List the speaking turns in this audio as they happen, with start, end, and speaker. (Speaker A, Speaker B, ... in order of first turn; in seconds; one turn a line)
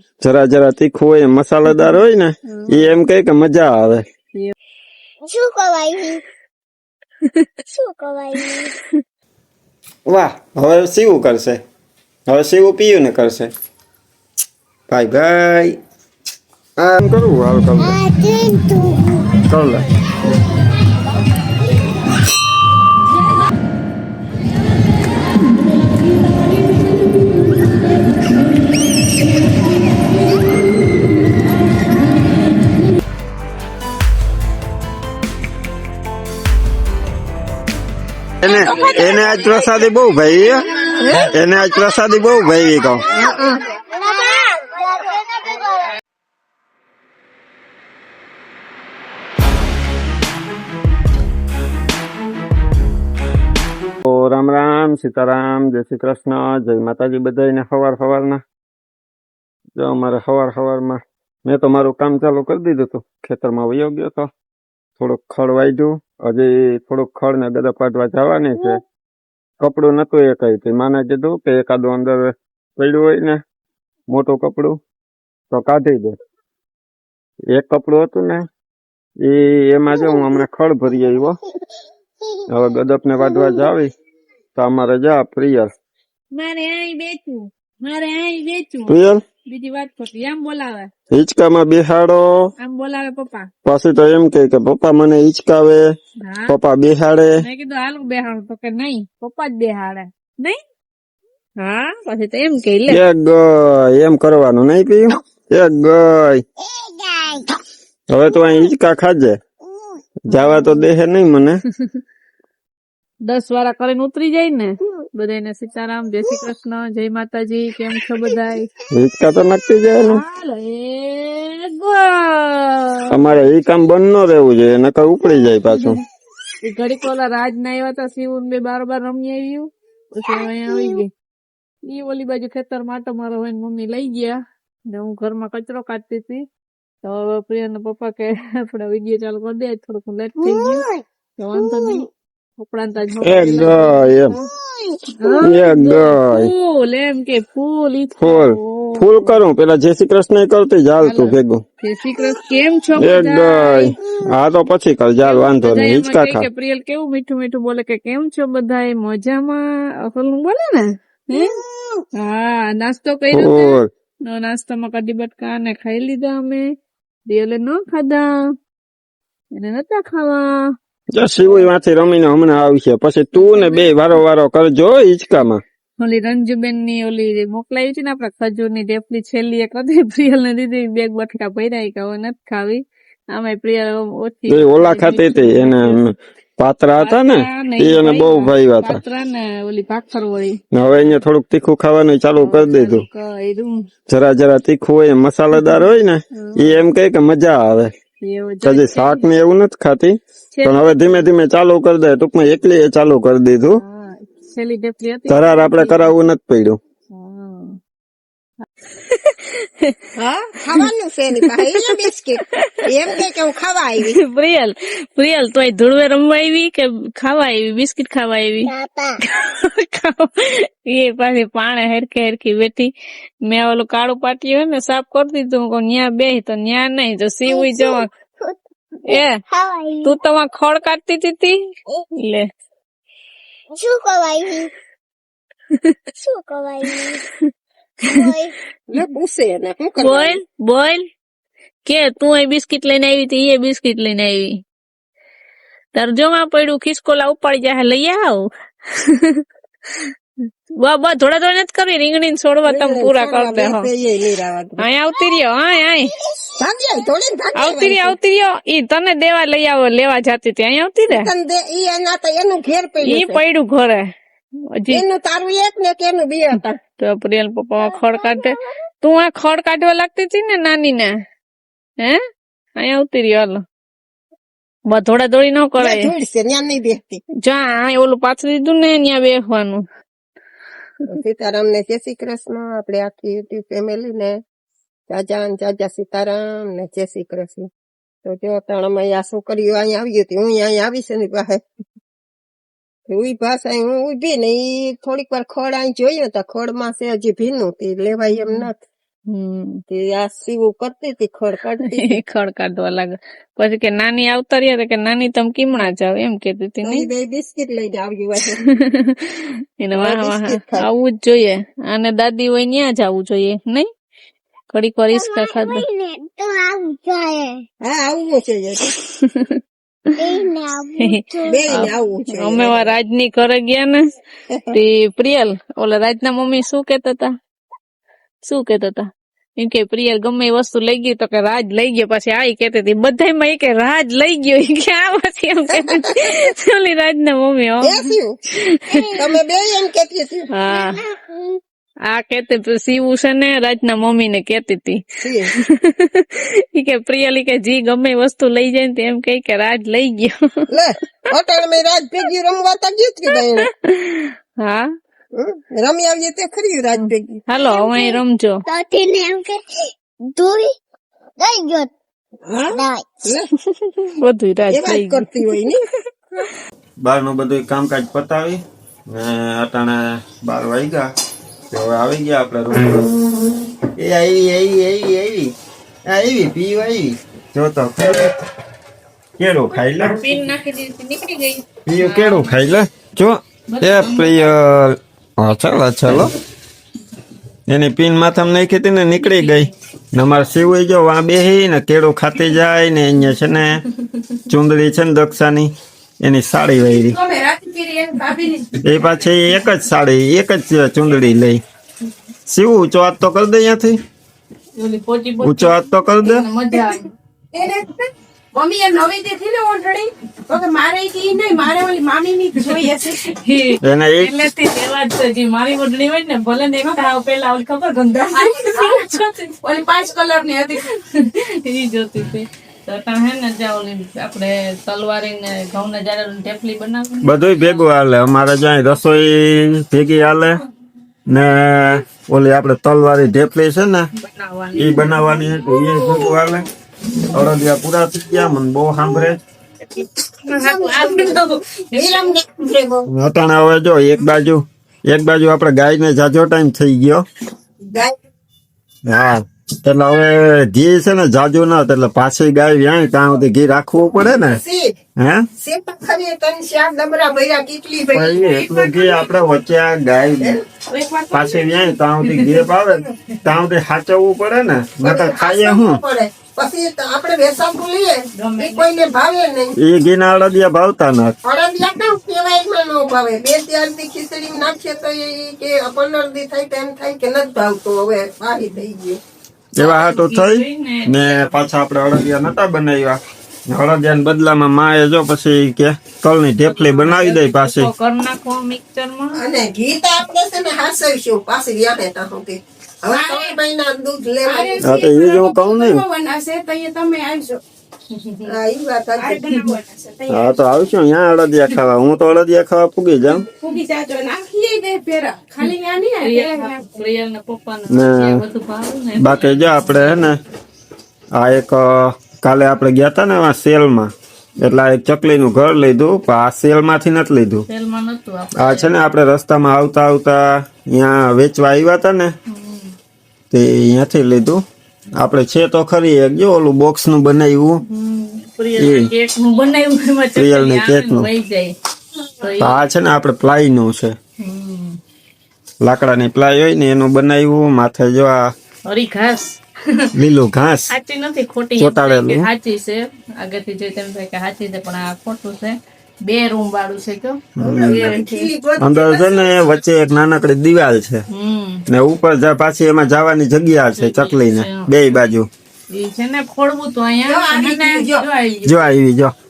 Speaker A: 0.2-4.0
Speaker B: 2.5-2.9
Speaker C: 5.2-6.2
Speaker C: 7.7-8.8
Speaker A: 10.1-11.6
Speaker A: 12.3-13.5
Speaker A: 14.9-15.8
Speaker A: 16.8-18.0
Speaker C: 17.7-19.3
Speaker A: 19.5-19.9
Speaker A: 38.4-40.6
Speaker D: 38.5-39.7
Speaker E: 41.0-41.3
Speaker A: 41.2-43.0
Speaker E: 43.1-43.6
Speaker C: 43.1-45.9
Speaker A: 54.0-58.4
Speaker A: 59.8-64.3
Speaker A: 65.0-68.8
Speaker A: 69.6-73.4
Speaker A: 74.1-74.8
Speaker A: 75.5-76.2
Speaker A: 77.5-78.5
Speaker A: 79.2-81.4
Speaker C: 79.9-80.3
Speaker A: 82.5-83.9
Speaker C: 83.2-83.7
Speaker A: 84.5-85.7
Speaker B: 86.3-90.9
Speaker A: 88.9-89.2
Speaker A: 91.1-92.5
Speaker B: 92.6-93.5
Speaker A: 93.6-95.8
Speaker B: 96.2-96.5
Speaker A: 96.5-97.4
Speaker B: 97.4-100.6
Speaker B: 101.6-103.0
Speaker A: 102.9-106.4
Speaker C: 106.6-107.6
Speaker A: 108.1-109.4
Speaker A: 110.2-111.6
Speaker B: 110.3-110.8
Speaker B: 113.2-118.7
Speaker A: 118.9-120.2
Speaker B: 120.0-123.2
Speaker A: 123.1-126.0
Speaker B: 125.7-126.0
Speaker B: 126.6-131.1
Speaker C: 130.3-131.0
Speaker B: 131.9-136.4
Speaker B: 137.0-140.8
Speaker C: 140.4-141.0
Speaker B: 141.4-142.1
Speaker C: 141.5-142.0
Speaker B: 142.6-144.2
Speaker A: 143.2-144.3
Speaker C: 144.3-145.3
Speaker B: 145.2-149.4
Speaker A: 145.4-146.5
Speaker A: 148.2-151.6
Speaker B: 151.0-153.9
Speaker A: 153.0-156.4
Speaker B: 155.2-161.5
Speaker C: 161.3-162.0
Speaker B: 162.2-166.7
Speaker A: 163.3-163.9
Speaker B: 167.3-168.5
Speaker B: 169.5-170.7
Speaker A: 171.1-175.6
Speaker B: 173.3-174.1
Speaker B: 176.0-186.0
Speaker A: 184.5-189.0
Speaker B: 187.0-190.6
Speaker A: 190.7-193.1
Speaker B: 192.4-193.8
Speaker A: 194.1-197.9
Speaker B: 196.3-196.8
Speaker B: 198.2-199.2
Speaker A: 198.6-203.8
Speaker B: 200.5-201.2
Speaker B: 203.7-206.1
Speaker A: 205.3-206.8
Speaker B: 207.1-207.8
Speaker B: 209.0-210.1
Speaker E: 210.2-214.2
Speaker B: 211.5-211.9
Speaker B: 212.5-212.8
Speaker B: 214.0-218.7
Speaker C: 218.6-219.2
Speaker B: 219.2-222.9
Speaker B: 223.4-228.1
Speaker C: 227.5-230.1
Speaker B: 229.1-229.4
Speaker B: 230.0-231.6
Speaker B: 232.2-232.5
Speaker C: 233.7-234.7
Speaker C: 236.2-237.3
Speaker C: 238.0-238.6
Speaker E: 238.9-240.4
Speaker B: 240.0-241.1
Speaker B: 241.8-244.6
Speaker B: 245.9-250.1
Speaker B: 250.8-253.9
Speaker E: 252.6-254.9
Speaker B: 254.8-256.1
Speaker E: 256.6-258.1
Speaker B: 257.6-261.3
Speaker E: 261.1-263.4
Speaker B: 263.0-264.1
Speaker B: 264.7-265.0
Speaker E: 264.9-266.8
Speaker B: 267.0-271.1
Speaker C: 267.9-268.4
Speaker B: 272.8-273.6
Speaker B: 274.9-276.1
Speaker E: 275.8-277.2
Speaker B: 277.4-279.8
Speaker E: 281.1-284.4
Speaker E: 285.1-287.7
Speaker E: 288.2-291.6
Speaker E: 293.1-298.8
Speaker B: 299.3-299.8
Speaker E: 299.9-302.2
Speaker B: 301.8-307.1
Speaker E: 306.8-308.6
Speaker B: 308.6-313.9
Speaker E: 309.9-310.9
Speaker B: 314.7-315.8
Speaker C: 315.1-317.6
Speaker E: 317.8-319.0
Speaker B: 319.0-319.6
Speaker C: 320.1-321.6
Speaker B: 321.0-324.0
Speaker E: 321.5-322.9
Speaker E: 324.5-324.8
Speaker B: 324.7-327.3
Speaker B: 328.4-339.1
Speaker E: 335.7-336.4
Speaker E: 337.8-338.4
Speaker C: 338.9-339.2
Speaker E: 339.1-340.5
Speaker B: 340.5-341.0
Speaker C: 340.6-341.6
Speaker B: 342.1-345.0
Speaker E: 345.2-345.5
Speaker B: 345.5-350.7
Speaker E: 350.7-353.7
Speaker B: 353.3-354.9
Speaker E: 355.3-357.4
Speaker B: 357.0-358.6
Speaker C: 357.6-359.6
Speaker C: 360.2-360.7
Speaker C: 361.4-361.9
Speaker E: 362.5-363.5
Speaker C: 362.7-363.2
Speaker B: 363.8-365.6
Speaker E: 364.7-365.8
Speaker A: 367.0-371.1
Speaker A: 371.7-373.1
Speaker A: 374.0-375.5
Speaker A: 376.1-378.3
Speaker A: 379.4-380.5
Speaker B: 380.0-382.5
Speaker A: 381.9-386.3
Speaker B: 383.7-384.5
Speaker A: 387.7-393.8
Speaker A: 394.5-397.2
Speaker D: 396.8-398.7
Speaker A: 398.8-401.6
Speaker A: 402.5-404.0
Speaker B: 404.8-407.1
Speaker A: 405.4-406.4
Speaker D: 407.5-413.3
Speaker B: 413.2-419.5
Speaker A: 413.8-414.3
Speaker D: 418.2-420.9
Speaker B: 420.9-427.5
Speaker A: 427.2-430.6
Speaker A: 431.3-434.1
Speaker B: 434.1-435.4
Speaker A: 434.8-436.6
Speaker A: 437.3-439.4
Speaker B: 439.8-442.2
Speaker E: 440.5-441.4
Speaker E: 441.9-443.1
Speaker A: 443.1-447.2
Speaker A: 449.1-454.6
Speaker E: 454.2-454.9
Speaker A: 455.2-455.5
Speaker E: 455.6-458.4
Speaker A: 458.1-460.6
Speaker D: 458.2-459.3
Speaker D: 460.9-461.9
Speaker A: 461.3-466.0
Speaker B: 462.3-462.5
Speaker E: 465.0-469.8
Speaker B: 468.3-468.9
Speaker A: 469.8-471.3
Speaker E: 471.4-479.2
Speaker A: 479.8-487.9
Speaker B: 479.8-481.5
Speaker B: 486.6-489.4
Speaker E: 489.3-494.9
Speaker D: 493.1-493.6
Speaker D: 494.4-497.6
Speaker A: 494.8-496.0
Speaker B: 498.1-498.5
Speaker E: 498.4-499.6
Speaker D: 499.2-500.7
Speaker A: 500.3-503.4
Speaker D: 503.6-507.0
Speaker B: 506.2-510.2
Speaker A: 507.9-508.4
Speaker A: 509.1-510.4
Speaker A: 511.3-517.7
Speaker B: 517.7-518.9
Speaker A: 518.5-522.3
Speaker B: 522.5-522.9
Speaker A: 523.5-524.6
Speaker A: 525.1-527.8
Speaker B: 527.9-531.7
Speaker A: 528.8-529.1
Speaker A: 530.3-531.3
Speaker B: 532.4-532.8
Speaker A: 532.6-534.2
Speaker B: 534.4-535.0
Speaker A: 535.8-538.5
Speaker B: 538.9-540.1
Speaker A: 540.1-540.9
Speaker B: 540.9-548.5
Speaker A: 541.8-542.5
Speaker A: 547.6-548.1
Speaker E: 547.6-549.5
Speaker A: 548.8-551.2
Speaker B: 551.3-551.8
Speaker A: 551.9-555.5
Speaker B: 554.0-554.9
Speaker B: 555.9-558.7
Speaker E: 557.3-558.2
Speaker A: 558.6-559.3